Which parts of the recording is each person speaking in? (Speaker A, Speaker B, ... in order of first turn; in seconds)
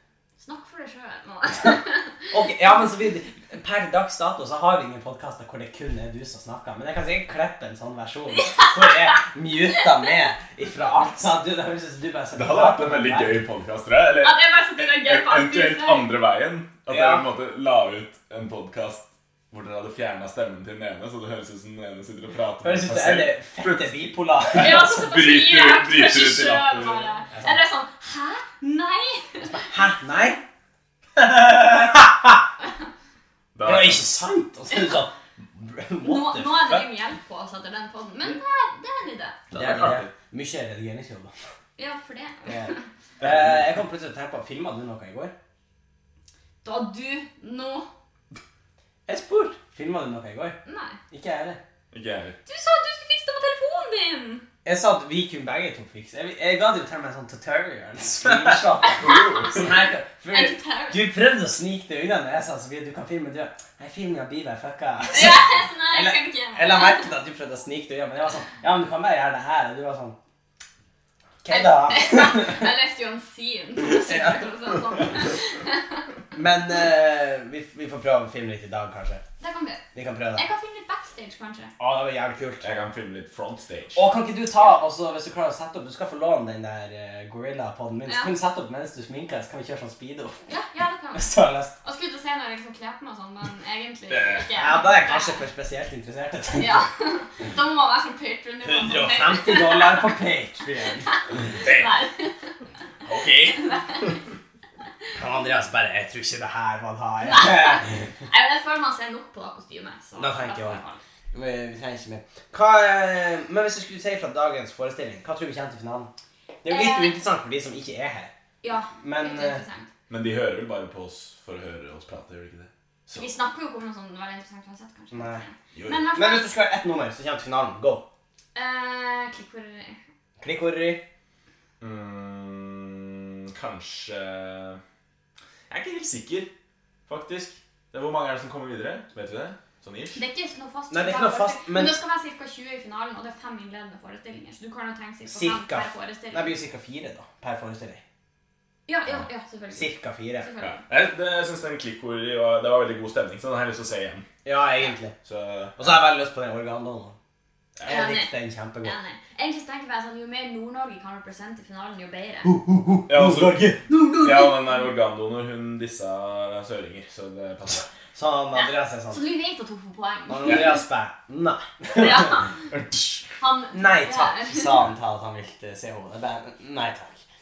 Speaker A: 0.4-2.3, 8.4-9.1, 14.2-16.1, 24.5-29.7, 34.7-35.0, 36.0-39.4, 41.8-42.8, 46.6-47.9, 50.6-51.0, 52.5-54.5, 58.8-59.7, 60.3-61.0, 65.1-67.1, 71.5-76.0, 79.4-79.8, 80.3-81.7, 88.0-88.3, 90.5-91.3, 91.8-95.4, 96.5-100.2, 101.0-102.5, 103.6-104.1, 107.2-111.0, 116.7-117.2, 118.6-119.9, 123.1-126.5, 128.5-130.0, 140.1-146.5, 148.9-150.8, 157.9-162.5, 163.9-164.9, 168.5-170.8, 171.9-172.7, 173.4-174.8
Speaker B: 2.3-13.4, 16.9-17.2, 22.6-24.9, 27.3-27.6, 29.4-30.4, 31.1-32.4, 33.6-36.9, 39.5-41.3, 42.5-45.3, 49.1-50.6, 51.1-51.6, 54.6-70.1, 71.4-72.7, 74.0-74.4, 76.3-79.2, 79.9-80.5, 81.8-82.7, 83.9-90.4, 91.1-91.7, 94.5-96.8, 98.6-101.1, 105.1-108.1, 110.2-110.8, 111.3-116.1, 116.6-118.3, 118.9-119.6, 123.1-123.4, 125.1-125.4, 126.1-128.0, 130.4-131.0, 140.9-142.0, 145.3-148.0, 149.7-150.5, 154.4-155.1, 155.8-157.2, 157.8-158.9, 162.4-163.8, 168.1-169.2, 170.3-172.4, 173.7-177.2
Speaker C: 12.3-27.1, 33.5-34.1, 39.5-40.1, 43.2-43.6, 51.9-52.4, 58.4-59.7, 82.6-84.0, 94.1-94.5, 101.6-101.9, 103.0-103.8, 120.1-122.7, 125.7-126.0, 131.8-134.8, 135.7-136.5, 137.1-140.2, 150.6-154.2, 155.2-156.0, 157.8-158.0, 163.1-167.9, 172.8-173.2